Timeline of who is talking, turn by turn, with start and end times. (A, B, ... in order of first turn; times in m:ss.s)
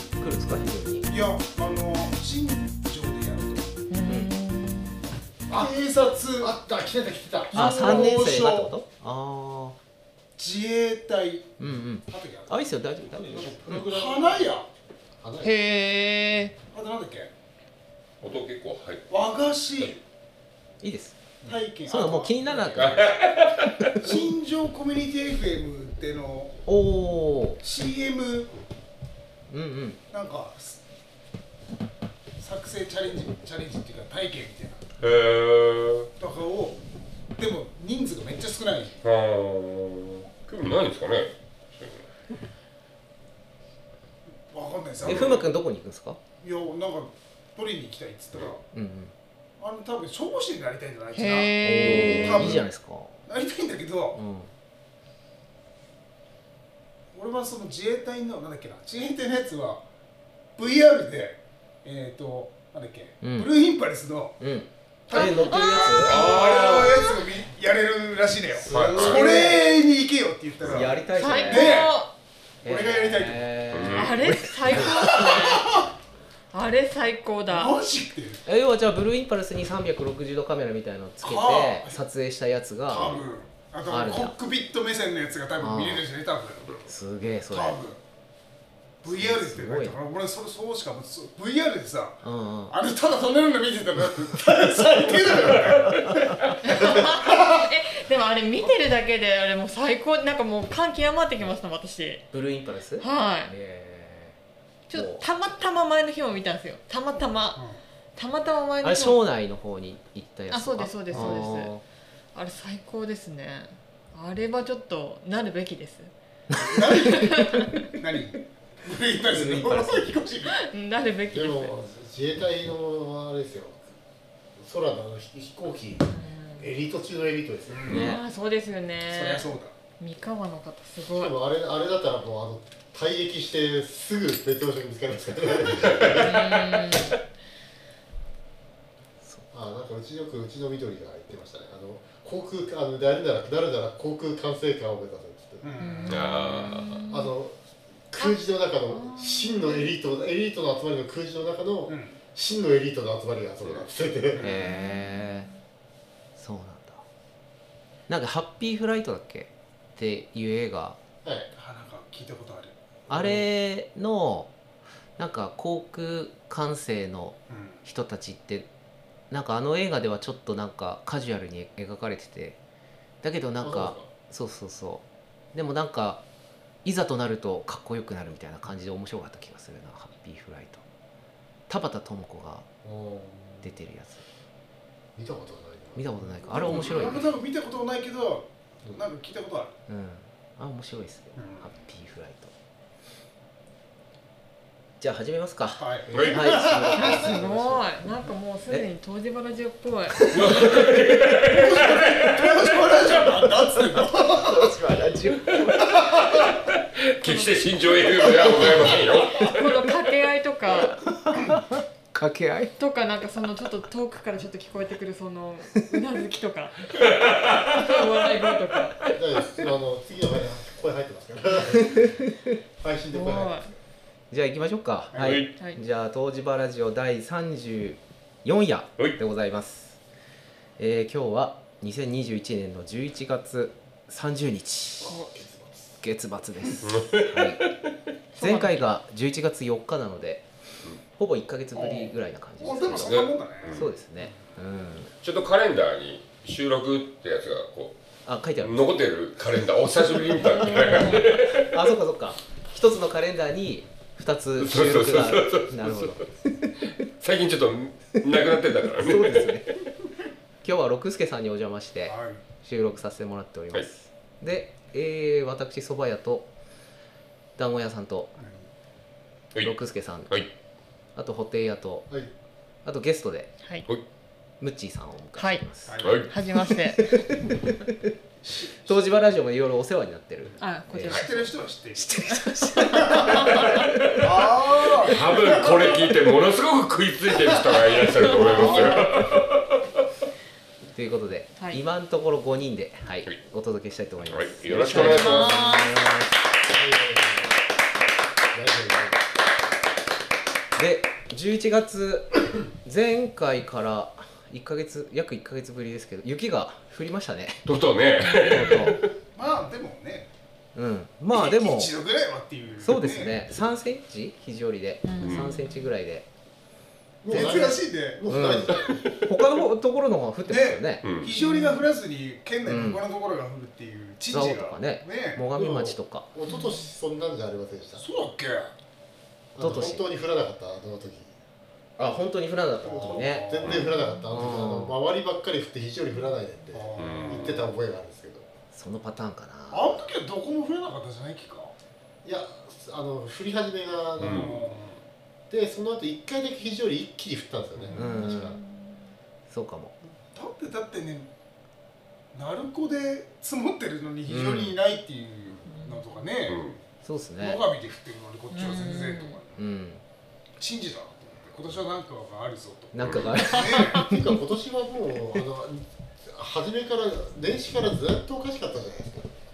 0:00.2-0:01.1 A
0:01.0-0:03.7 B
0:03.9-0:05.0 C
0:04.0-0:04.3 A
0:05.5-0:06.5 B
0:06.4-0:07.6 D
0:07.5-0:08.7 B
0:07.5-0:09.8 A
0:07.6-0:08.2 C
0:10.4-0:12.7 B
0:11.6-0:14.0 A
0:13.3-0:14.0 D
0:13.6-0:14.7 B
0:15.2-0:15.6 D
0:15.4-0:16.6 C
0:16.7-0:17.3 B
0:18.2-0:19.2 E
0:19.1-0:20.0 B
0:20.8-0:21.2 A
0:21.4-0:22.7 B
0:21.8-0:24.2 A
0:22.8-0:24.1 E
0:24.0-0:26.6 B
0:26.6-0:27.6 A
0:27.6-0:28.5 B
0:29.5-0:30.0 A
0:30.1-0:30.8 B
0:32.4-0:34.8 B
0:35.0-0:36.1 E
0:36.2-0:36.8 B
0:37.4-0:39.0 B
0:39.0-0:42.0 E
0:44.5-0:45.5 B
0:45.0-0:46.2 A
0:45.0-0:45.4 E
0:46.4-0:48.6 B
0:48.7-0:49.1 A
0:49.6-0:52.7 B
0:51.1-0:52.4 C
0:51.6-0:53.2 A
0:53.3-0:54.2 B
0:54.1-0:54.5 A
0:57.1-0:59.8 B
1:00.6-1:04.4 B
1:03.2-1:03.6 A
1:04.4-1:06.8 A
1:05.1-1:12.0 B
1:05.1-1:07.2 C
1:08.6-1:09.6 D
1:08.7-1:09.3 E
1:09.0-1:09.6 A
1:10.6-1:10.9 E
1:10.6-1:11.8 A
1:11.0-1:12.1 C
1:12.6-1:13.9 B
1:12.6-1:15.2 A
1:13.7-1:14.2 E
1:13.9-1:15.8 C
1:14.6-1:15.9 B
1:16.5-1:17.7 C
1:17.4-1:18.4 B
1:18.4-1:23.3 A
1:21.2-1:22.0 B
1:22.9-1:26.8 B
1:23.9-1:24.3 A
1:25.6-1:26.1 A
1:26.8-1:27.8 A
1:27.5-1:28.0 B
1:29.0-1:30.0 A
1:29.0-1:37.6 B
1:32.2-1:32.8 A
1:35.9-1:36.5 A
1:36.6-1:42.3 C
1:42.3-1:44.4 A
1:43.0-1:43.5 C
1:44.9-1:47.6 C
1:44.9-1:45.3 A
1:47.5-1:47.8 B
1:48.2-1:49.2 C
1:48.8-1:51.8 A
1:50.5-1:51.7 C
1:51.1-1:51.4 D
1:52.3-1:56.1 C
1:56.5-2:00.6 B
1:56.7-1:58.0 C
1:59.2-2:00.1 A
2:00.5-2:01.8 C
2:01.3-2:03.8 D
2:04.6-2:06.0 D
2:06.1-2:06.7 C
2:06.6-2:08.1 D
2:07.7-2:08.2 B
2:07.8-2:08.2 A
2:08.0-2:11.3 C
2:09.0-2:09.8 B
2:11.1-2:16.5 D
2:16.1-2:17.2 C
2:19.2-2:19.5 A
2:19.5-2:25.8 D
2:25.6-2:26.4 B
2:25.8-2:27.3 C
2:26.1-2:27.0 E
2:26.5-2:27.6 D
2:28.1-2:34.6 D
2:28.1-2:29.9 C
2:31.9-2:32.2 B
2:34.3-2:34.6 B
2:34.4-2:35.5 A
2:34.6-2:35.5 C
2:36.4-2:37.0 A
2:38.1-2:41.0 A
2:41.2-2:41.5 D
2:41.5-2:42.7 B
2:43.1-2:44.5 A
2:43.1-2:43.4 D
2:45.2-2:48.7 A
2:47.5-2:47.8 B
2:49.3-2:52.6 A
2:53.2-2:56.2 A
2:53.6-2:54.0 D
2:56.8-3:00.8 A
3:01.7-3:02.6 A
3:02.8-3:03.7 D
3:03.6-3:04.2 A
3:05.2-3:06.6 D
3:05.9-3:07.2 A
3:06.5-3:09.7 B
3:06.7-3:07.2 E
3:09.9-3:12.5 A
3:11.4-3:11.7 B
3:15.0-3:17.8 A
3:15.8-3:17.5 B
3:16.1-3:17.6 D
3:16.1-3:16.5 E
3:16.9-3:20.4 C
3:20.3-3:22.6 E
3:20.4-3:20.8 A
3:21.4-3:24.7 B
3:23.7-3:26.2 A
3:26.1-3:26.5 B
3:26.2-3:29.7 E
3:27.2-3:31.0 C
3:31.0-3:32.7 A
3:32.8-3:39.1 C
3:36.9-3:38.0 E
3:39.1-3:42.1 D
3:42.8-3:43.6 D
3:43.1-3:43.7 C
3:44.3-3:50.0 A
3:45.1-3:45.4 B
3:45.2-3:45.5 E
3:50.8-3:55.2 A
3:55.0-3:55.3 C
3:55.3-3:55.7 D
3:56.0-3:57.6 A
3:56.8-3:57.9 E
3:58.3-3:58.8 C
3:58.4-4:00.4 A
4:01.1-4:05.1 A
4:01.7-4:03.9 B
4:02.9-4:03.9 E
4:05.2-4:08.0 E
4:08.2-4:08.9 A
4:08.6-4:11.7 E
4:10.6-4:16.8 A
4:10.7-4:11.2 C
4:14.6-4:16.2 E
4:17.2-4:19.9 E
4:18.9-4:19.7 A
4:20.6-4:26.5 A
4:22.0-4:22.4 B
4:27.6-4:28.3 A
4:28.4-4:28.7 B
4:29.6-4:30.4 A
4:31.2-4:32.1 A
4:32.8-4:33.5 A
4:34.6-4:38.1 A
4:35.4-4:35.7 C
4:35.8-4:36.3 B
4:36.0-4:36.3 E
4:36.3-4:37.4 C
4:38.4-4:39.1 B
4:38.8-4:44.8 A
4:40.6-4:41.6 C
4:41.1-4:43.2 B
4:43.2-4:43.8 C
4:44.1-4:46.1 B
4:45.1-4:49.8 E
4:48.2-4:49.4 A
4:48.3-4:48.6 C
4:48.4-4:49.2 B
4:50.9-4:56.4 A
4:54.2-4:55.6 E
4:54.8-4:55.3 D
4:55.0-4:56.0 C
4:56.7-4:57.5 D
4:58.5-4:59.2 D
5:00.8-5:07.6 A
5:07.6-5:09.1 E
5:08.2-5:09.0 C
5:08.4-5:09.0 A
5:09.3-5:10.3 B
5:10.7-5:12.0 A
5:11.3-5:13.4 B
5:12.8-5:16.3 A
5:15.0-5:15.9 C
5:15.2-5:15.5 E
5:17.2-5:19.0 D
5:17.3-5:18.2 B
5:18.3-5:21.1 A
5:18.7-5:19.2 E
5:20.4-5:25.4 B
5:21.0-5:21.3 E
5:21.3-5:21.9 C
5:22.6-5:23.0 A
5:24.3-5:26.3 A
5:25.6-5:28.0 D
5:26.5-5:26.9 C
5:28.0-5:28.7 B
5:29.5-5:31.3 D
5:29.6-5:30.0 A
5:32.0-5:33.8 A
5:32.8-5:33.8 B
5:32.9-5:38.5 D
5:34.3-5:35.0 A
5:36.7-5:37.7 B
5:37.0-5:37.6 E
5:38.7-5:40.0 A
5:39.7-5:41.7 B
5:42.2-5:44.6 D
5:44.2-5:44.6 E
5:44.2-5:45.0 B
5:45.5-5:48.6 D
5:47.9-5:48.6 A
5:48.6-5:49.0 C
5:49.5-5:49.9 A
5:50.3-5:51.3 B
5:52.3-5:56.6 B
5:54.3-5:54.8 A
5:55.6-5:56.1 C
5:56.5-5:56.8 E
5:57.0-5:57.6 A
5:57.4-5:59.6 B
5:58.5-5:59.4 C
5:59.5-6:00.0 A
6:00.6-6:04.0 B
6:02.9-6:04.4 A
6:03.0-6:03.4 E
6:03.6-6:04.0 C
6:03.8-6:09.3 D